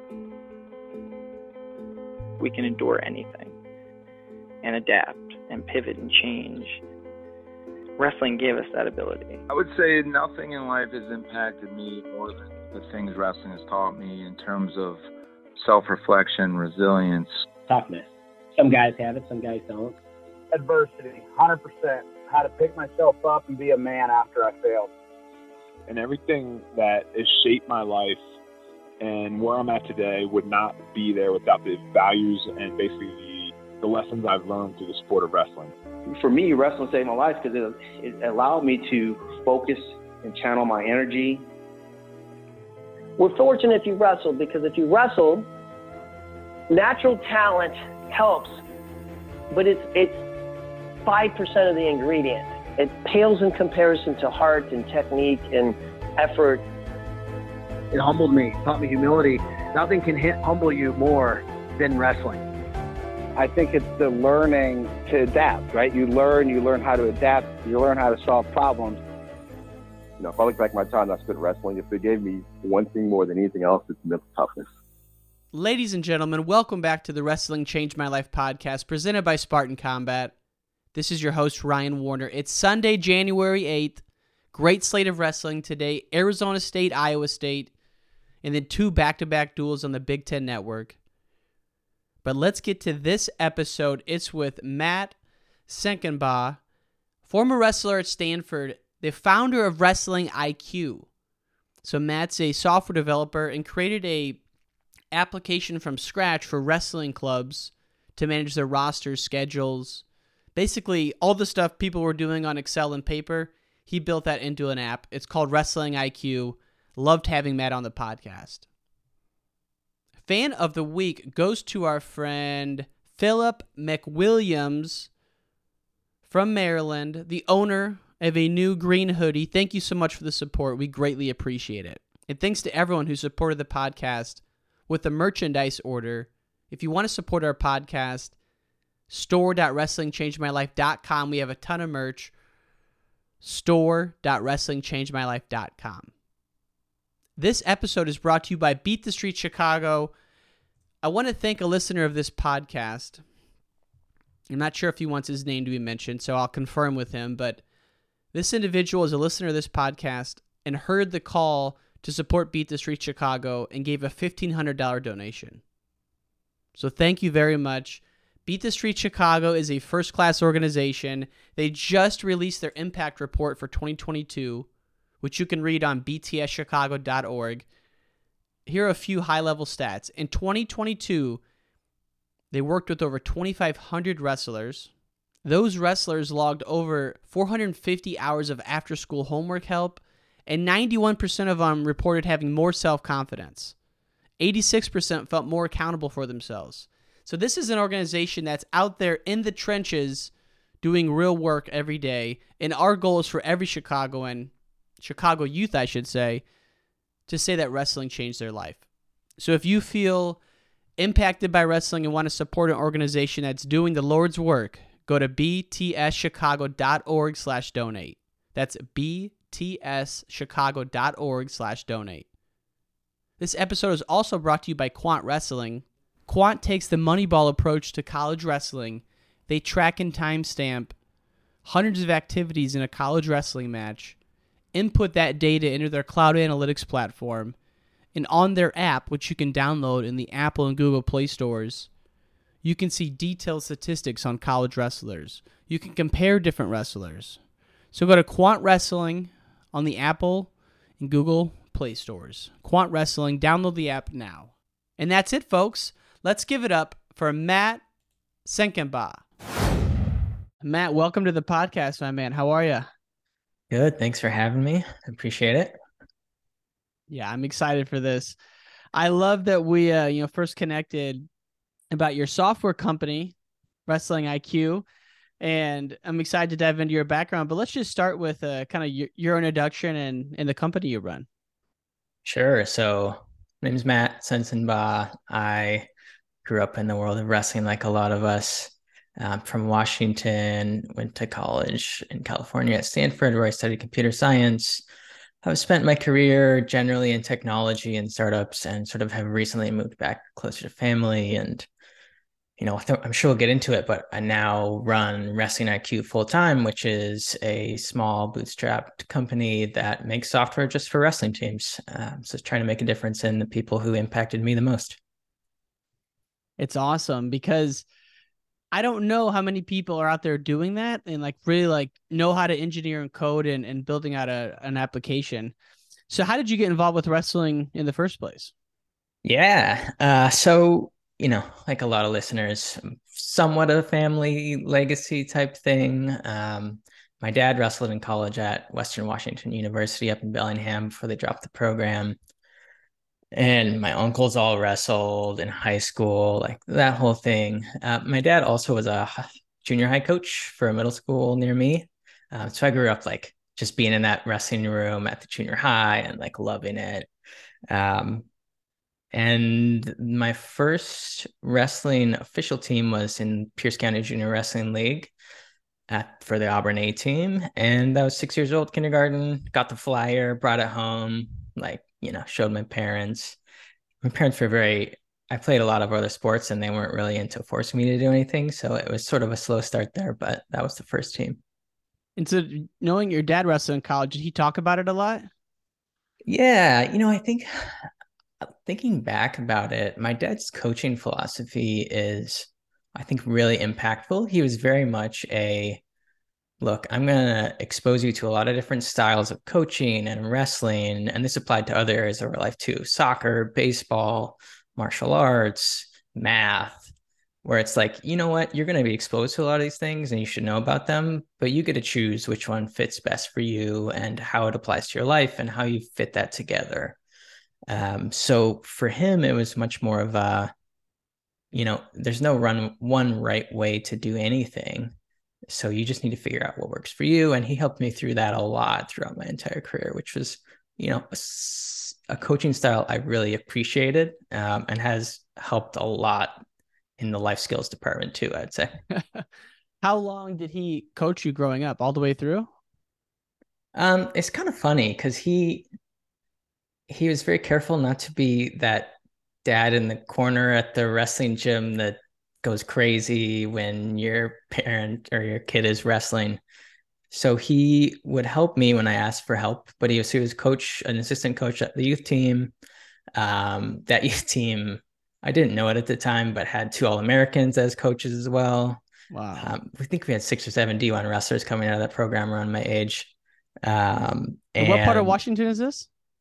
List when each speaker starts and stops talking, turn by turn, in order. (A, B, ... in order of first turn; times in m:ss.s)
0:02.4-0:03.5 A
0:04.6-0:06.8 A
0:08.0-0:09.4 A
0:09.5-0:15.0 B
0:15.6-0:17.4 B
0:17.7-0:20.0 C
0:20.5-0:24.9 D
0:25.9-0:28.2 E
0:29.0-0:35.7 E
0:36.0-0:41.4 F
0:43.2-0:45.5 G
0:46.7-0:48.6 G
0:49.5-0:50.2 G
0:51.0-0:56.6 G
0:57.9-1:02.4 D
1:03.4-1:09.0 D
1:10.2-1:14.7 H
1:15.5-1:20.3 I
1:20.9-1:27.7 I
1:28.4-1:31.0 I
1:32.2-1:36.6 I
1:37.2-1:41.1 I
1:41.8-1:44.4 I
1:45.1-1:58.6 I
2:00.2-2:05.1 I
2:06.3-2:18.4 I
2:19.1-2:22.3 I
2:23.4-2:26.1 I
2:27.4-2:30.1 I
2:31.0-2:33.2 I
2:34.5-2:37.6 I
2:38.3-2:45.6 I
2:46.7-2:54.7 I
2:55.2-2:57.6 I
2:58.6-3:01.4 I
3:02.5-3:04.9 I
3:05.4-3:13.8 I
3:14.4-3:26.5 I
3:27.3-3:30.4 I
3:31.0-3:42.3 I
3:43.4-3:51.0 I
3:51.6-3:54.2 I
3:54.7-3:57.6 I
3:58.1-4:01.9 I
4:02.6-4:17.8 I
4:18.4-4:19.2 I
4:20.6-4:22.9 I
4:23.7-4:25.7 J
4:27.1-4:28.4 I
4:28.9-4:31.3 I
4:31.9-4:33.3 I
4:33.9-4:34.8 I
4:35.4-4:41.3 I
4:42.2-4:45.9 J
4:46.4-4:54.8 J
4:55.4-5:01.6 J
5:02.6-5:15.0 J
5:16.6-5:17.8 I
5:18.7-5:25.5 I
5:26.1-5:28.5 I
5:29.2-5:42.2 J
5:43.3-5:57.1 J
5:57.7-5:58.2 J
5:59.1-6:05.1 J
6:05.9-6:13.4 J
6:14.0-6:21.4 J
6:22.2-6:25.3 I
6:26.3-6:27.5 J
6:28.6-6:35.8 J
6:36.6-6:46.9 J
6:47.4-6:57.0 J
6:57.7-7:00.5 J
7:01.5-7:04.9 J
7:05.5-7:16.4 J
7:17.0-7:18.7 J
7:18.9-7:19.2 I
7:19.8-7:22.5 I
7:23.7-7:25.7 J
7:26.9-7:28.9 J
7:29.4-7:36.4 J
7:37.1-7:42.5 J
7:43.2-7:48.8 J
7:49.1-7:49.5 I
7:49.4-7:53.1 J
7:53.6-7:55.2 J
7:54.6-7:55.9 I